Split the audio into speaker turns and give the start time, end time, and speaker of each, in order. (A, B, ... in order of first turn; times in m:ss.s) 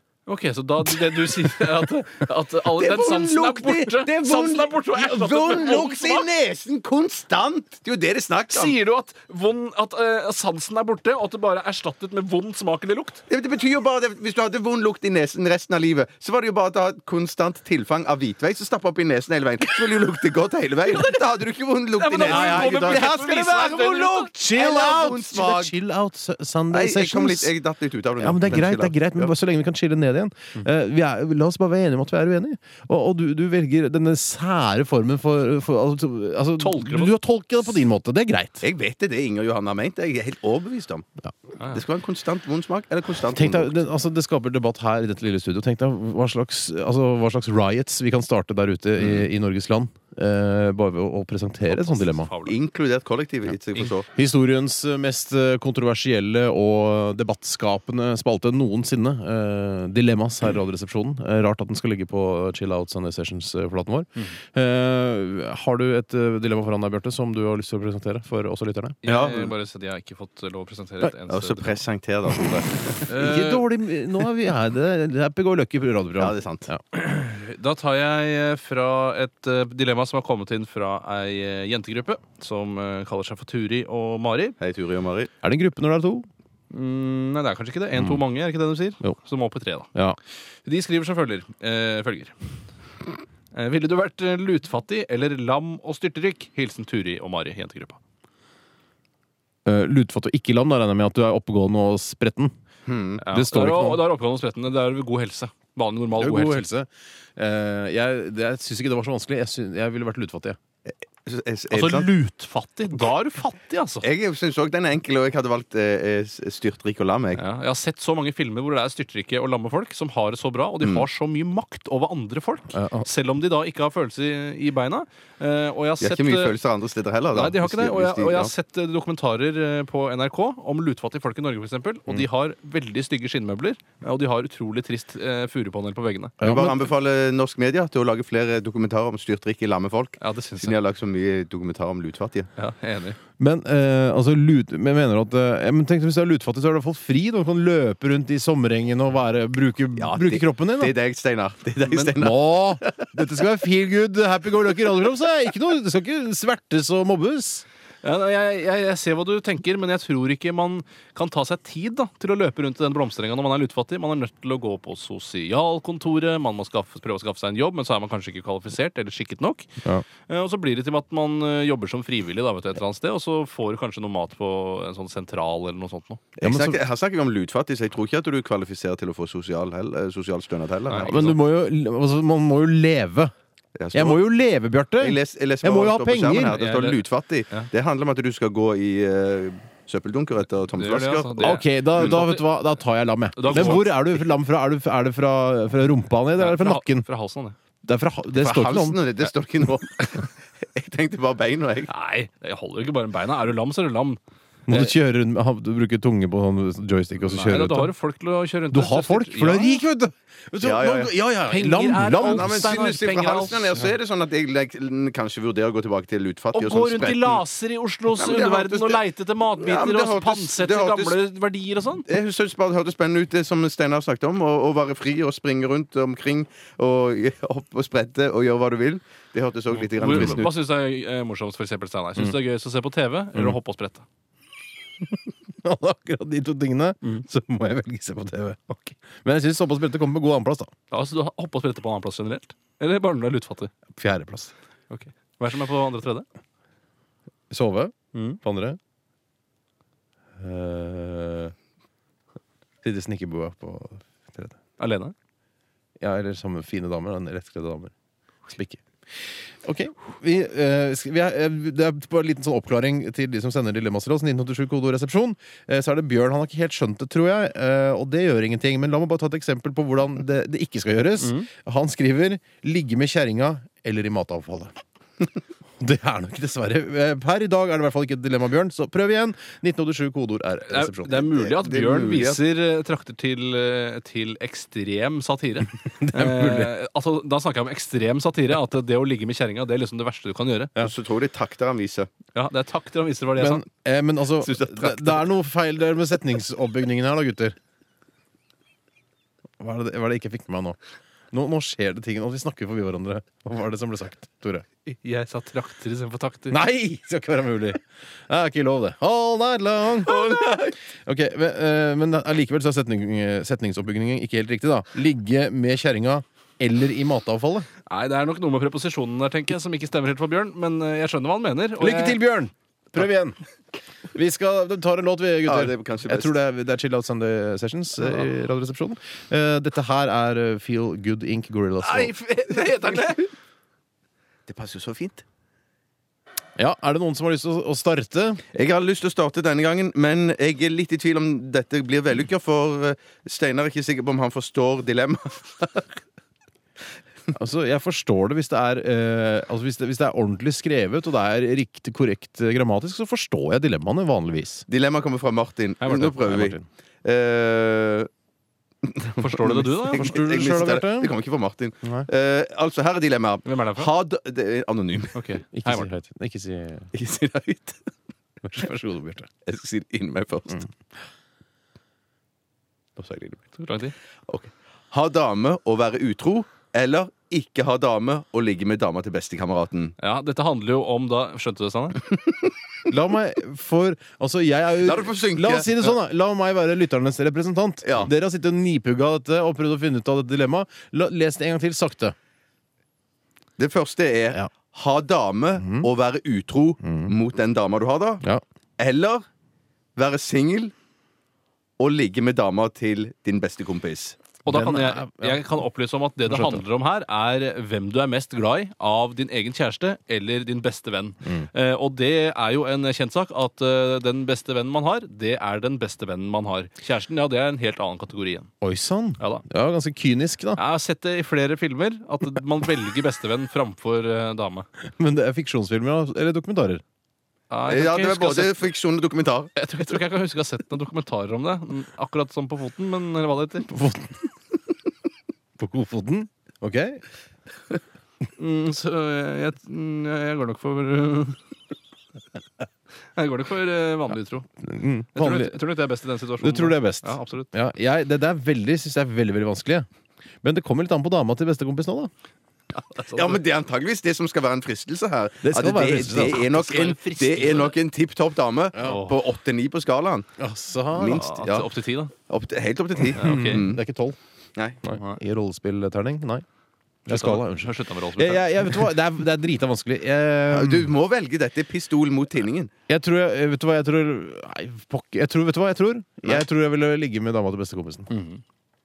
0:00.3-0:06.3 A
0:02.7-0:08.8 B
0:08.5-0:13.2 A
0:13.3-0:25.7 B
0:22.0-0:24.3 A
0:22.2-0:23.1 C
0:24.3-0:27.5 C
0:26.7-0:29.3 B
0:28.2-0:38.6 C
0:36.6-0:37.1 A
0:38.6-0:41.1 B
0:41.7-0:43.8 B
0:43.2-0:52.3 C
0:49.0-0:49.2 B
0:51.7-0:52.6 A
0:52.4-0:54.1 B
0:54.1-1:09.0 C
1:09.0-1:11.8 A
1:09.0-1:09.5 B
1:11.3-1:13.1 B
1:13.1-1:13.6 A
1:13.1-1:16.8 C
1:16.2-1:16.7 B
1:16.9-1:24.6 A
1:24.6-1:25.3 B
1:25.4-1:26.3 C
1:26.7-1:29.9 A
1:30.6-1:32.3 A
1:33.5-1:38.0 A
1:39.6-1:42.5 C
1:42.8-1:43.2 B
1:43.2-1:46.6 A
1:43.3-1:44.0 C
1:46.2-1:50.6 C
1:50.9-1:52.1 B
1:51.7-1:54.1 A
1:54.0-1:57.4 B
1:57.3-2:06.5 A
2:02.7-2:03.1 C
2:06.0-2:08.5 B
2:07.3-2:16.3 A
2:16.4-2:16.7 C
2:16.4-2:22.5 B
2:20.2-2:20.8 A
2:22.6-2:23.2 A
2:23.4-2:30.9 C
2:30.0-2:33.1 B
2:32.1-2:37.6 C
2:38.0-2:49.7 A
2:50.3-2:56.2 A
2:56.4-3:01.3 B
2:56.4-2:56.8 C
3:00.9-3:01.4 A
3:01.1-3:03.3 C
3:03.8-3:04.2 B
3:03.9-3:06.6 C
3:05.0-3:11.6 B
3:06.4-3:07.7 A
3:10.8-3:12.4 A
3:11.4-3:17.1 C
3:13.4-3:13.9 A
3:13.5-3:13.8 B
3:16.4-3:17.6 A
3:17.8-3:19.0 C
3:18.4-3:21.9 B
3:21.9-3:24.9 A
3:24.7-3:27.9 C
3:27.2-3:29.8 A
3:28.7-3:32.7 C
3:30.6-3:31.1 B
3:31.5-3:33.8 A
3:32.2-3:37.4 B
3:36.5-3:42.1 A
3:38.2-3:39.0 B
3:39.6-3:41.2 B
3:42.1-3:50.5 B
3:49.7-3:54.0 A
3:50.0-3:50.4 C
3:55.5-4:00.7 C
4:00.9-4:03.7 A
4:03.9-4:04.5 C
4:04.9-4:06.3 A
4:07.5-4:08.8 C
4:08.1-4:08.4 A
4:10.4-4:11.5 C
4:12.8-4:14.6 C
4:14.8-4:15.1 A
4:16.0-4:17.9 C
4:18.5-4:34.7 C
4:31.2-4:31.5 A
4:35.8-4:41.2 C
4:40.7-4:50.7 A
4:41.2-4:42.4 B
4:46.0-4:46.7 C
4:50.8-4:52.1 B
4:52.4-4:53.6 A
4:53.4-4:57.6 C
4:54.4-4:55.2 B
4:59.6-5:00.8 C
5:01.3-5:04.6 C
5:04.9-5:06.6 A
5:06.5-5:10.2 C
5:10.0-5:10.8 B
5:11.0-5:17.7 C
5:17.9-5:22.2 A
5:21.8-5:23.4 C
5:24.1-5:32.1 C
5:25.4-5:26.3 B
5:31.8-5:33.3 A
5:34.5-5:35.2 B
5:36.6-5:38.4 C
5:38.5-5:45.9 B
5:47.3-5:54.6 C
5:54.7-5:58.1 B
5:55.8-5:56.3 A
5:56.1-5:56.6 C
5:58.8-6:05.2 B
5:59.2-6:00.2 A
6:00.0-6:01.1 C
6:03.4-6:03.9 A
6:05.1-6:05.9 A
6:05.5-6:06.9 C
6:06.9-6:07.9 B
6:08.4-6:09.3 C
6:09.4-6:10.7 B
6:13.0-6:13.4 B
6:13.6-6:13.9 A
6:14.3-6:20.0 B
6:20.0-6:22.0 A
6:22.9-6:32.1 C
6:24.8-6:25.7 B
6:27.8-6:28.1 B
6:33.6-6:38.2 B
6:35.6-6:35.9 C
6:36.8-6:37.1 C
6:38.8-6:39.2 B
6:40.0-6:40.7 B
6:41.8-6:44.2 B
6:44.4-6:58.5 A
6:44.5-6:45.4 C
6:46.3-6:46.6 C
6:58.6-7:00.6 C
7:00.6-7:04.7 A
7:05.0-7:06.8 C
7:07.5-7:08.6 A
7:07.7-7:09.5 B
7:09.5-7:13.7 A
7:13.7-7:14.2 C
7:15.6-7:17.0 C
7:18.4-7:21.4 A
7:23.1-7:24.5 A
7:24.6-7:25.6 C
7:25.1-7:27.5 A
7:26.4-7:29.9 C
7:30.4-7:32.1 C
7:32.7-7:33.4 A
7:33.1-7:40.3 B
7:35.4-7:36.4 C
7:36.1-7:37.8 A
7:38.8-7:39.1 A
7:40.4-7:41.3 C
7:40.9-7:41.7 B
7:41.0-7:42.1 A
7:42.3-7:43.8 B
7:43.2-7:43.6 A
7:43.2-7:44.2 C
7:44.8-7:46.4 C
7:44.9-7:45.2 A
7:47.0-7:48.9 A
7:47.1-7:50.9 C
7:50.5-7:52.7 B
7:52.9-7:58.1 C
7:58.1-7:58.4 A